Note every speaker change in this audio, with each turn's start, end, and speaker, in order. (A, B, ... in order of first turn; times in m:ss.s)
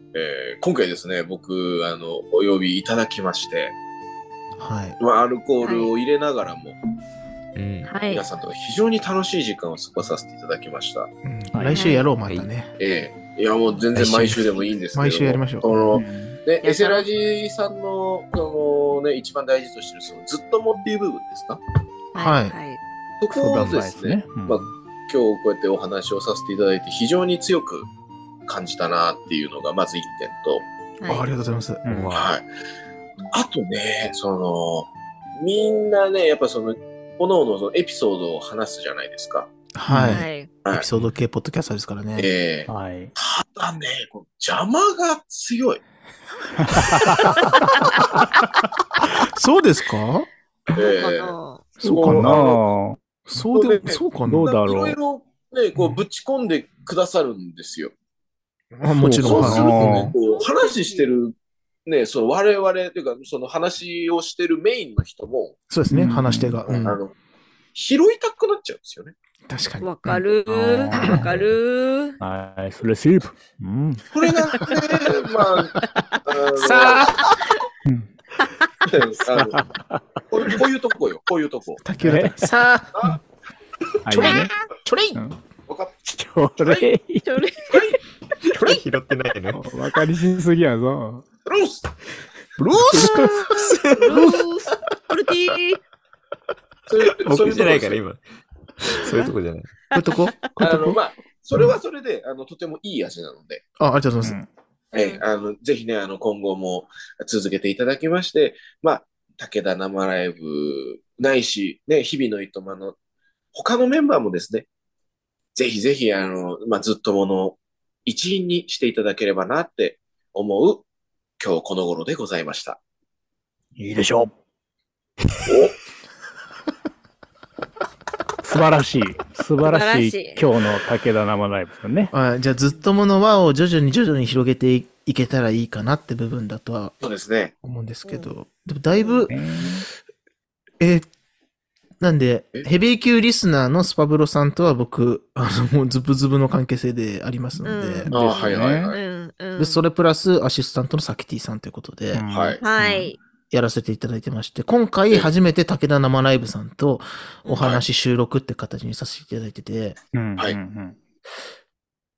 0:00.1-0:03.7 A
0:04.6-0:05.0 B
0:05.0-0:06.8 A
0:05.6-0:05.9 C
0:07.6-0:07.9 D
0:07.8-0:08.2 C
0:08.0-0:11.1 A
0:11.2-0:12.7 B
0:11.5-0:11.8 E
0:11.7-0:12.1 C
0:12.8-0:21.6 A
0:14.0-0:14.4 D
0:14.9-0:15.7 B
0:15.9-0:16.4 E
0:16.6-0:17.0 C
0:22.1-0:22.8 C
0:22.1-0:22.5 B
0:23.2-0:27.9 A
0:23.3-0:24.7 E
0:28.4-0:30.6 A
0:31.0-0:31.2 C
0:31.1-0:31.9 B
0:31.8-0:32.1 E
0:31.9-0:32.3 D
0:32.1-0:32.4 A
0:33.3-0:39.5 A
0:39.7-0:42.3 B
0:39.9-0:40.2 E
0:40.1-0:40.5 C
0:42.2-0:45.8 A
0:42.7-0:43.1 E
0:46.6-0:47.8 E
0:49.0-0:50.3 B
0:50.7-0:52.6 A
0:50.8-0:51.7 C
0:51.8-0:52.4 B
0:52.0-0:53.0 E
0:53.3-0:54.5 B
0:53.5-0:57.9 A
0:54.3-0:55.0 E
0:58.8-1:00.2 B
0:59.0-1:00.1 E
0:59.0-1:01.3 A
1:00.2-1:01.0 C
1:01.8-1:05.6 A
1:05.7-1:07.0 B
1:05.9-1:06.6 E
1:06.6-1:07.1 A
1:07.7-1:09.1 A
1:09.5-1:10.2 B
1:09.8-1:12.2 C
1:10.5-1:11.3 E
1:11.0-1:11.2 B
1:12.2-1:14.0 E
1:14.1-1:17.3 A
1:16.6-1:17.2 B
1:18.8-1:19.6 A
1:19.3-1:20.0 E
1:20.3-1:21.8 A
1:21.8-1:23.2 B
1:22.0-1:22.5 E
1:22.9-1:23.2 A
1:24.0-1:24.5 E
1:24.1-1:25.2 B
1:25.7-1:26.0 A
1:26.0-1:27.8 E
1:26.6-1:26.9 A
1:27.2-1:28.0 C
1:28.4-1:29.6 D
1:29.5-1:31.2 E
1:31.4-1:31.9 A
1:32.6-1:34.3 B
1:32.9-1:33.3 E
1:34.0-1:34.7 A
1:34.0-1:35.8 C
1:36.9-1:38.0 A
1:37.2-1:38.2 D
1:38.8-1:39.7 D
1:39.0-1:39.3 C
1:39.9-1:40.2 C
1:39.9-1:41.0 B
1:40.6-1:43.6 A
1:43.8-1:44.4 B
1:44.2-1:44.5 E
1:44.9-1:45.2 C
1:44.9-1:53.0 A
1:53.5-1:54.7 A
1:55.5-2:00.8 A
2:01.4-2:02.8 A
2:03.8-2:04.3 E
2:05.4-2:05.7 A
2:08.4-2:12.1 E
2:09.6-2:10.4 C
2:12.1-2:16.9 B
2:17.0-2:17.5 A
2:17.6-2:19.3 B
2:18.9-2:19.3 C
2:19.3-2:19.8 E
2:20.8-2:21.1 B
2:22.0-2:28.1 B
2:27.6-2:29.8 C
2:28.1-2:28.9 E
2:28.1-2:29.0 A
2:29.6-2:32.2 B
2:32.1-2:33.1 E
2:32.3-2:32.6 A
2:32.6-2:33.2 C
2:33.5-2:40.0 B
2:37.4-2:37.7 C
2:37.6-2:37.8 A
2:40.1-2:41.0 E